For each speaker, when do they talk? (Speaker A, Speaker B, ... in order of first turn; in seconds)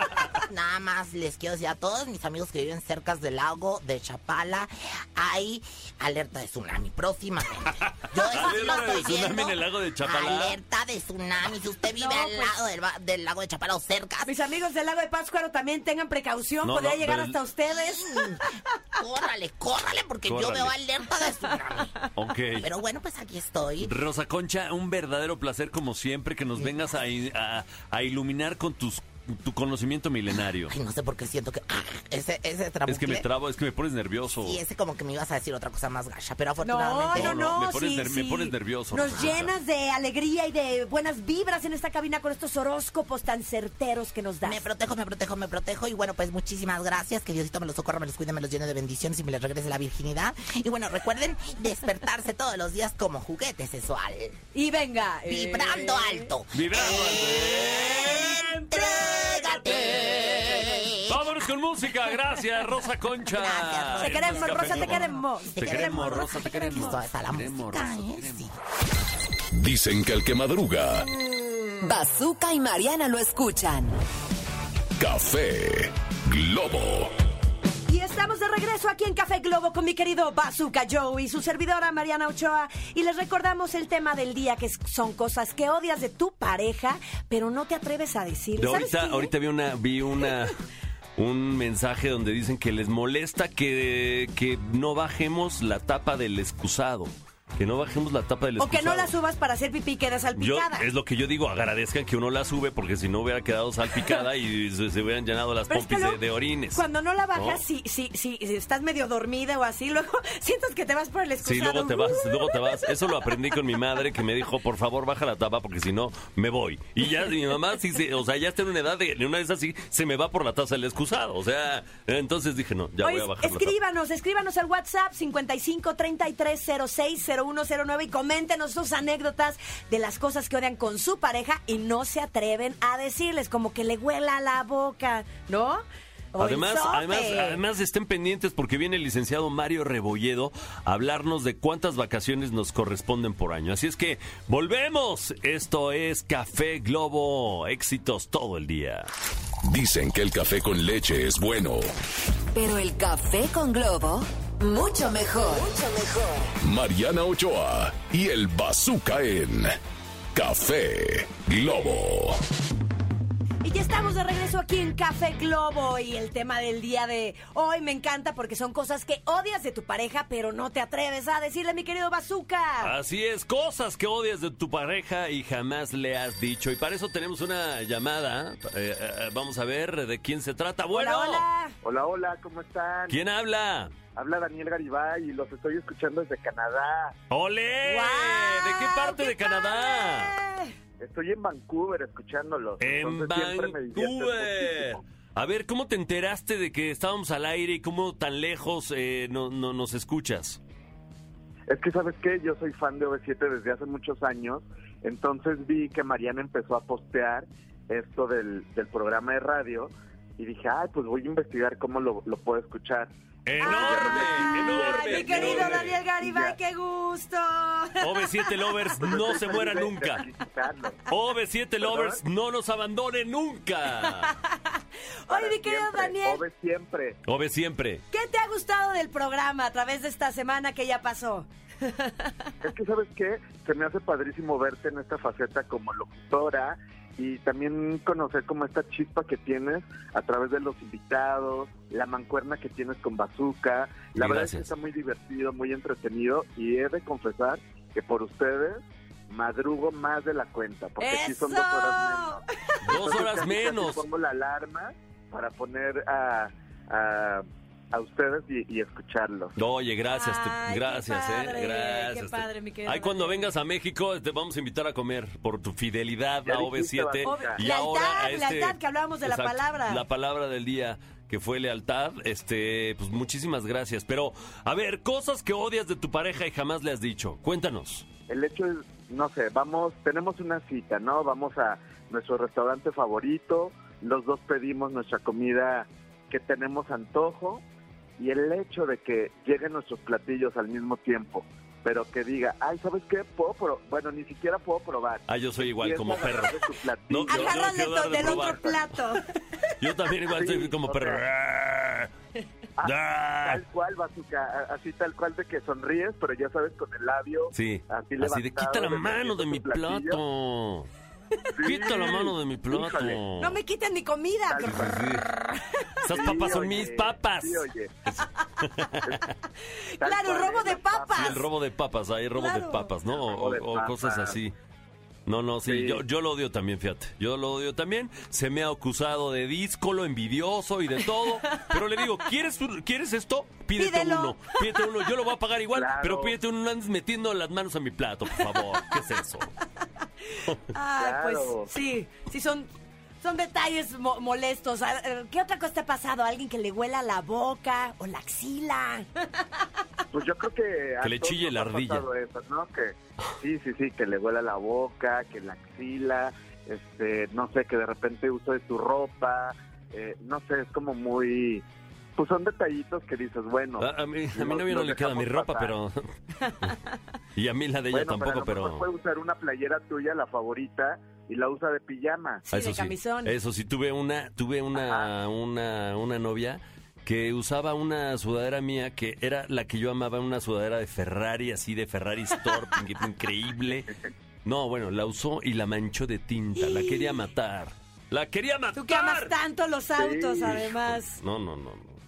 Speaker A: 0.3-14.3, 17.7-21.9, 22.6-23.9, 30.7-33.2, 34.4-37.5, 39.1-39.3, 44.4-54.4, 55.3-61.4, 63.3-68.5
Speaker B: 8.2-10.6, 16.6-17.4, 20.3-20.7, 22.1-22.7, 23.8-30.7, 32.9-34.6, 37.1-39.5, 56.5-68.5, 88.6-90.6, 91.2-99.1, 100.3-106.8, 107.3-107.6, 111.4-123.8, 136.4-149.1, 172.8-181.4, 183.1-183.9, 187.3-190.3, 192.8-200.6, 213.4-216.0, 218.0-220.2, 221.1-224.3, 227.3-228.0, 244.1-244.7, 252.8-254.0, 259.6-278.0, 295.3-298.7, 299.8-302.1, 302.8-303.6, 307.5-310.9, 311.6-313.6, 314.6-315.3, 316.0-319.2, 321.1-324.5, 325.2-339.5, 351.0-352.1, 363.8-366.8, 367.4-368.9, 372.5-389.3, 390.4-392.0
Speaker C: 11.9-12.5, 14.2-18.4, 36.6-44.6, 54.5-56.3, 64.0-66.9, 77.8-89.3, 98.6-100.8, 105.7-106.2, 106.7-113.3, 123.0-137.6, 163.6-172.9, 180.9-181.7, 187.8-190.7, 213.6-218.5, 224.0-226.4, 228.1-232.3, 251.0-253.0, 260.1-263.5, 267.2-270.0, 297.3-299.7, 313.4-315.0, 315.5-315.9, 320.0-321.4, 322.3-322.9, 333.8-334.7, 340.7-342.7, 343.2-349.2, 372.5-373.3, 386.6-387.2, 388.7-391.2
Speaker D: 69.5-71.1, 75.0-77.1, 149.6-151.8, 156.6-159.8, 160.3-162.4
Speaker E: 71.8-74.0, 152.5-156.4
Speaker F: 181.8-183.2, 184.1-187.1, 191.0-195.0, 201.7-216.6, 219.0-221.1, 221.8-222.2, 225.3-227.2, 232.6-259.5, 266.4-267.6, 278.3-287.6, 288.2-298.8, 300.3-301.2, 302.8-310.2, 311.5-313.2, 314.5-315.1, 316.1-317.9, 320.0-321.4, 323.2-324.4, 325.6-326.0, 335.7-336.4, 341.0-341.7, 350.1-361.6, 362.1-365.8, 367.9-372.4, 374.7-375.1, 390.0-390.5